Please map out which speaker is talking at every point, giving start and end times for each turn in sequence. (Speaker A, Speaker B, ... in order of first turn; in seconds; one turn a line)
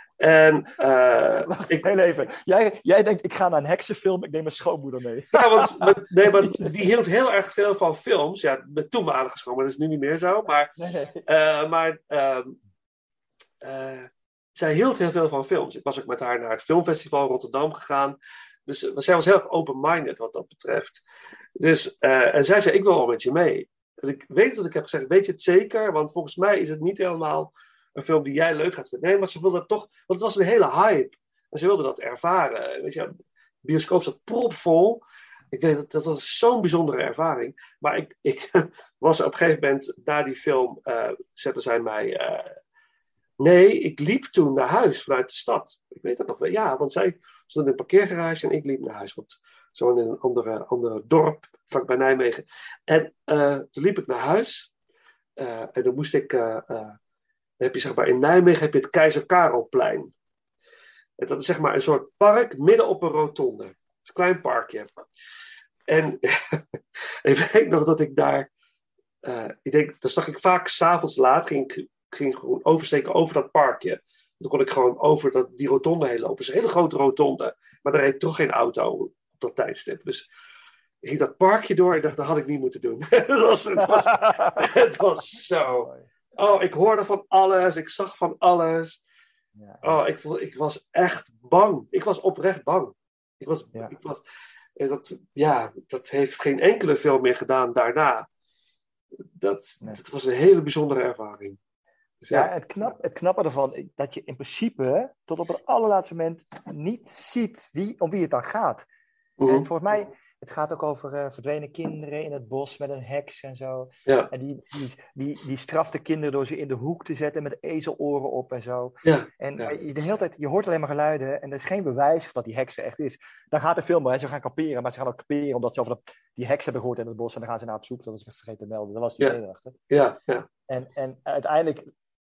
Speaker A: 0.2-1.8
Speaker B: 1.3-6.7
Speaker A: 5.3-12.6
Speaker B: 10.8-11.2
Speaker A: 13.6-21.0
Speaker A: 21.6-33.1
Speaker A: 33.6-42.5
Speaker A: 43.4-54.7
Speaker A: 55.4-57.0
Speaker A: 57.6-60.1
Speaker A: 61.2-64.9
Speaker A: 65.9-66.6
Speaker A: 67.2-68.5
Speaker A: 69.2-80.2
Speaker A: 81.0-89.0
Speaker B: 83.8-84.7
Speaker B: 85.6-86.1
Speaker B: 89.6-90.0
Speaker A: 89.8-94.2
Speaker A: 94.8-98.3
Speaker A: 99.4-101.6
Speaker A: 102.2-102.5
Speaker B: 102.3-108.8
Speaker A: 109.4-109.7
Speaker B: 109.5-129.8
Speaker A: 119.0-119.7
Speaker A: 129.9-130.4
Speaker B: 130.7-131.9